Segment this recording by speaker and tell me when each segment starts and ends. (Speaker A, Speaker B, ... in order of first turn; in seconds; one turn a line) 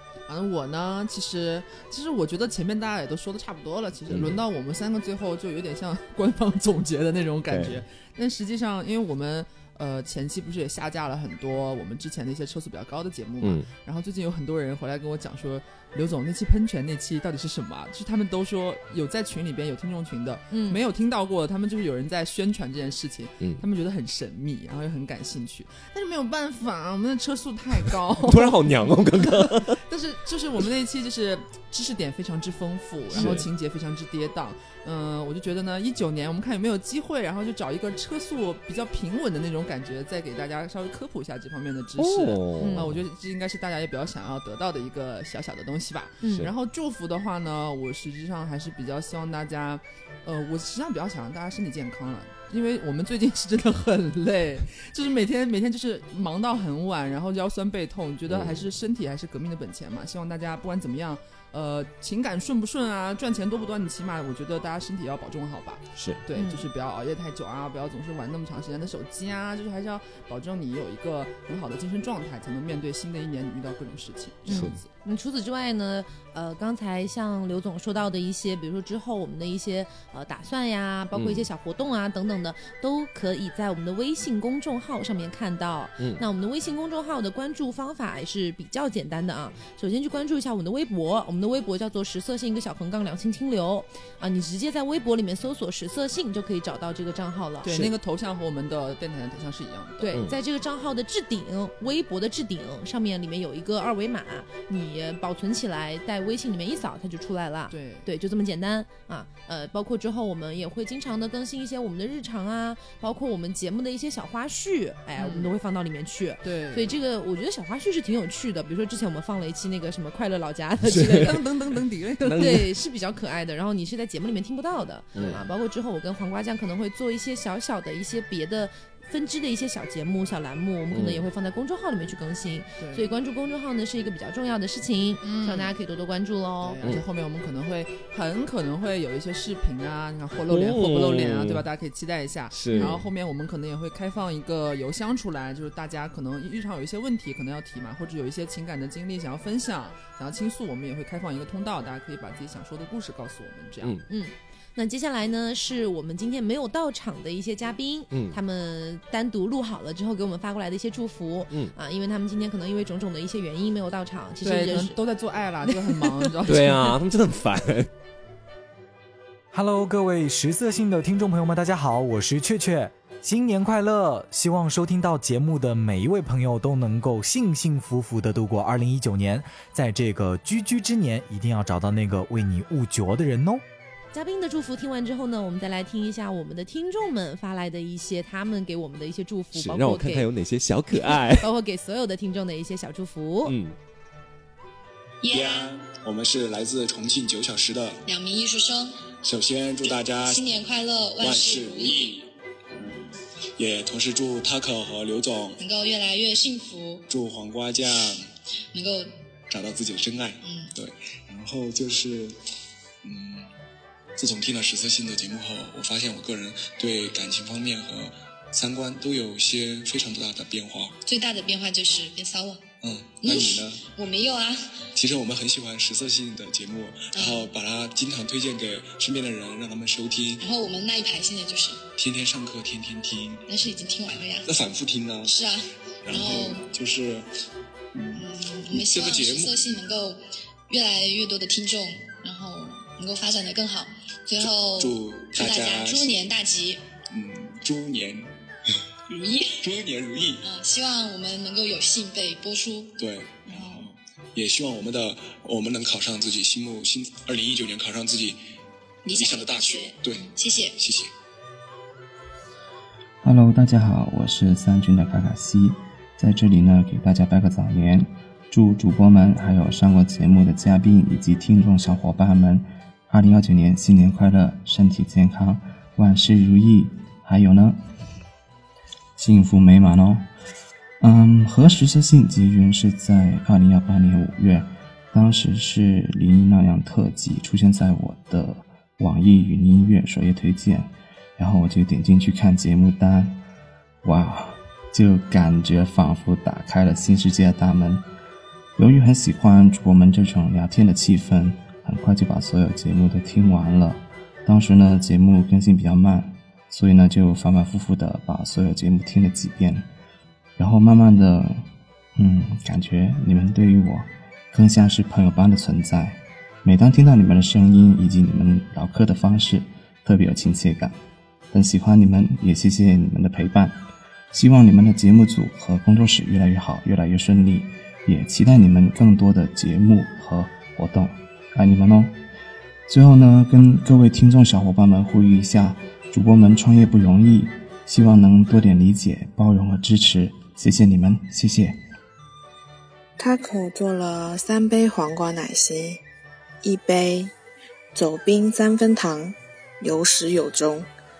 Speaker A: 0.3-74.9
Speaker B: 4.1-4.4
Speaker B: 7.5-7.8
Speaker B: 13.4-13.7
Speaker C: 20.5-20.8
Speaker B: 28.2-29.8
Speaker B: 33.1-33.5
Speaker B: 42.0-42.9
Speaker C: 42.6-42.9
Speaker B: 58.3-58.6
Speaker B: 66.0-66.2
Speaker C: 66.3-66.6
Speaker C: 74.5-97.7
Speaker B: 74.5-74.8
Speaker B: 81.1-81.5
Speaker B: 86.0-86.2
Speaker A: 97.6-100.1
Speaker B: 97.7-97.9
Speaker C: 100.0-121.4
Speaker A: 107.7-108.1
Speaker A: 115.2-115.5
Speaker A: 116.4-117.0
Speaker B: 120.9-121.3
Speaker A: 121.1-122.6
Speaker C: 122.2-136.8
Speaker B: 122.3-122.5
Speaker B: 125.1-125.4
Speaker B: 130.9-131.2
Speaker A: 132.8-133.1
Speaker A: 135.2-135.7
Speaker A: 136.6-154.0
Speaker B: 140.5-141.7
Speaker B: 142.5-143.0
Speaker C: 154.1-165.0
Speaker B: 158.1-158.4
Speaker A: 164.4-166.9
Speaker C: 165.7-166.3
Speaker B: 166.5-167.9
Speaker D: 169.5-183.6
Speaker C: 184.1-190.3
Speaker B: 189.5-191.5
Speaker C: 190.9-193.6
Speaker B: 193.4-193.8
Speaker E: 195.2-195.7
Speaker F: 195.3-198.0
Speaker E: 198.0-199.1
Speaker F: 199.2-205.6
Speaker E: 199.8-202.2
Speaker E: 205.6-207.0
Speaker F: 207.1-208.2
Speaker E: 208.7-209.1
Speaker F: 209.5-212.3
Speaker E: 210.4-210.7
Speaker F: 213.0-213.5
Speaker F: 214.2-220.9
Speaker E: 221.0-222.6
Speaker F: 222.8-223.9
Speaker E: 223.2-224.8
Speaker F: 224.9-230.4
Speaker E: 227.1-227.5
Speaker E: 230.4-231.8
Speaker F: 231.9-233.5
Speaker E: 233.5-234.5
Speaker F: 234.4-235.3
Speaker E: 235.2-236.7
Speaker F: 236.0-237.2
Speaker F: 237.9-239.8
Speaker E: 238.1-246.8
Speaker F: 244.3-246.3
Speaker F: 247.1-248.3
Speaker E: 249.1-249.7
Speaker F: 249.6-250.4
Speaker E: 250.4-253.9
Speaker F: 253.0-258.4
Speaker E: 259.0-260.8
Speaker F: 259.1-261.1
Speaker G: 263.2-277.8
Speaker G: 279.2-280.2
Speaker G: 281.0-293.4
Speaker G: 294.0-298.0
Speaker G: 298.8-309.9
Speaker G: 310.6-311.6
Speaker G: 312.1-320.9
Speaker G: 321.5-323.8
Speaker G: 324.3-332.2
Speaker G: 332.9-341.8
Speaker H: 343.2-346.0
Speaker H: 346.6-347.3
Speaker H: 347.9-350.9